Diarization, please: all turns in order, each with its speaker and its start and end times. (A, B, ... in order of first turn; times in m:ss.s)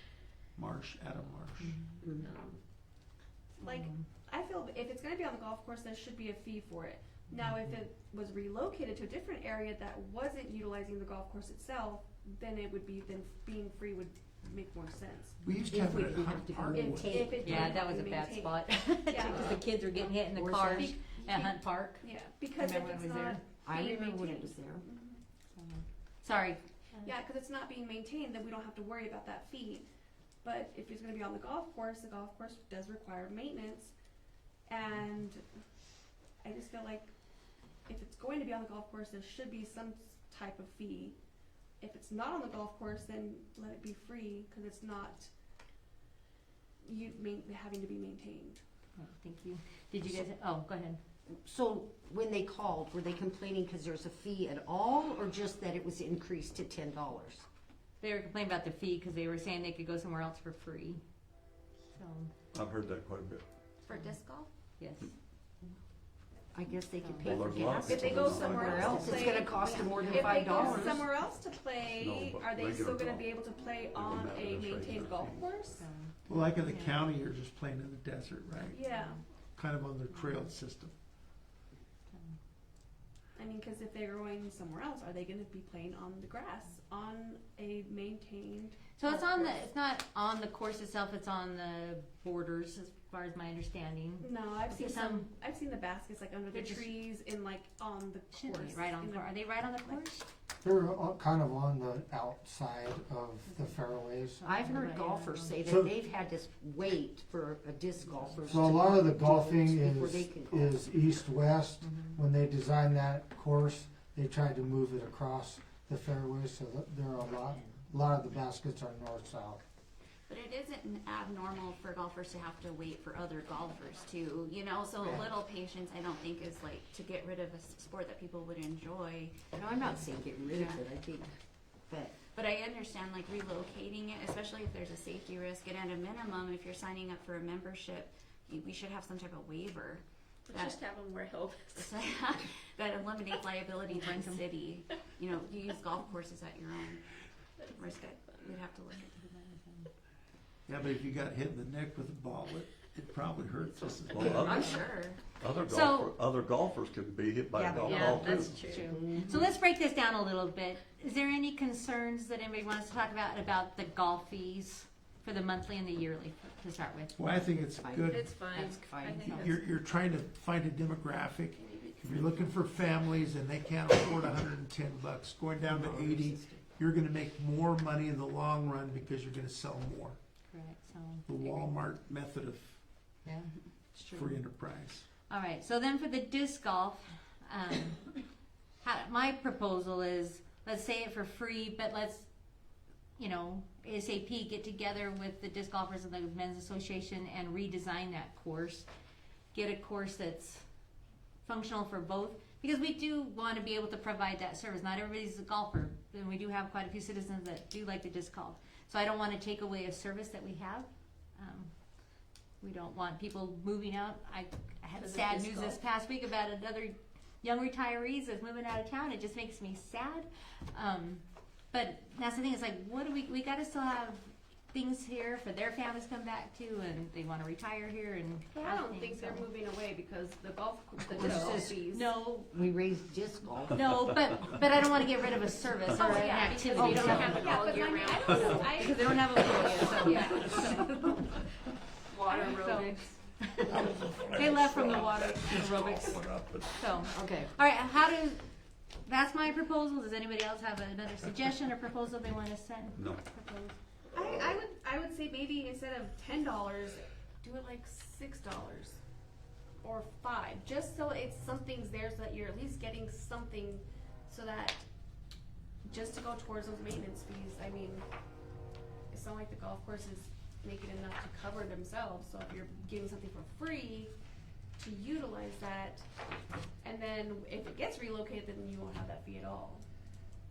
0:00.5-0:01.7 A
0:01.6-0:02.0 B
0:02.0-0:02.3 C
0:02.2-0:02.6 D
0:03.6-0:15.4 E
0:03.6-0:04.0 B
0:15.4-0:17.7 A
0:15.7-0:17.4 C
0:16.7-0:19.6 E
0:17.4-0:23.4 B
0:20.2-0:21.0 C
0:20.8-0:25.2 E
0:23.6-0:24.8 C
0:25.5-0:27.1 B
0:27.0-0:29.8 E
0:30.4-0:33.9 E
0:34.7-0:35.4 E
0:36.4-0:37.1 E
0:37.8-0:41.2 E
0:41.8-0:45.3 E
0:46.8-0:48.6 E
0:49.0-0:51.0 B
0:51.3-0:57.4 C
0:58.0-1:01.0 B
1:01.9-1:02.3 B
1:02.5-1:03.4 F
1:03.8-1:04.5 G
1:04.8-1:05.1 B
1:06.5-1:11.1 C
1:07.0-1:07.4 B
1:07.2-1:09.3 F
1:07.9-1:15.8 E
1:09.6-1:10.5 B
1:11.8-1:13.4 F
1:13.9-1:15.6 F
1:15.7-1:17.0 B
1:16.2-1:18.8 A
1:18.7-1:19.2 E
1:18.8-1:19.2 B
1:19.5-1:20.9 A
1:20.1-1:20.5 B
1:22.1-1:22.4 B
1:23.4-1:29.6 E
1:29.0-1:35.3 B
1:34.2-1:40.0 E
1:36.5-1:36.9 B
1:38.3-1:40.3 B
1:40.6-1:44.5 H
1:44.4-1:45.6 B
1:44.4-1:50.8 C
1:45.6-1:45.9 H
1:48.4-1:59.6 H
1:51.8-1:52.2 B
2:00.3-2:09.3 G
2:09.5-2:11.3 C
2:11.9-2:12.2 C
2:12.3-2:20.8 G
2:20.5-2:21.9 D
2:21.7-2:27.0 G
2:23.9-2:24.5 B
2:27.6-2:28.6 D
2:27.7-2:29.1 G
2:29.2-2:29.9 B
2:30.7-2:34.8 A
2:34.1-2:38.8 F
2:34.3-2:34.5 C
2:34.4-2:35.2 G
2:35.6-2:36.1 B
2:37.5-2:38.4 C
2:37.8-2:39.0 D
2:38.0-2:47.2 B
2:38.9-2:39.5 C
2:47.1-2:48.3 A
2:47.3-2:49.5 C
2:48.1-2:49.7 D
2:49.2-3:00.2 A
2:51.5-2:52.6 D
2:55.6-2:56.6 C
3:00.5-3:01.6 B
3:01.2-3:02.8 A
3:03.2-3:03.5 B
3:04.0-3:05.0 A
3:05.3-3:08.1 B
3:08.8-3:12.3 B
3:13.2-3:18.9 B
3:19.5-3:20.6 B
3:21.4-3:31.7 B
3:32.6-3:49.5 B
3:35.0-3:35.8 D
3:48.5-3:52.1 E
3:51.1-3:51.7 C
3:51.2-3:52.5 B
3:52.5-3:54.1 C
3:53.7-4:01.5 B
3:55.9-3:59.1 E
3:56.4-3:58.6 G
3:56.8-3:58.3 D
3:56.9-3:57.4 C
3:59.9-4:00.5 E
4:02.1-4:03.1 D
4:02.3-4:06.2 B
4:02.3-4:03.0 E
4:03.6-4:05.6 A
4:05.6-4:07.1 F
4:06.7-4:08.4 B
4:07.1-4:07.5 C
4:09.0-4:13.8 B
4:13.0-4:13.2 F
4:14.1-4:19.0 E
4:19.8-4:24.8 E
4:25.8-4:28.0 E
4:29.1-4:34.1 E
4:34.8-4:36.0 E
4:36.8-4:39.8 E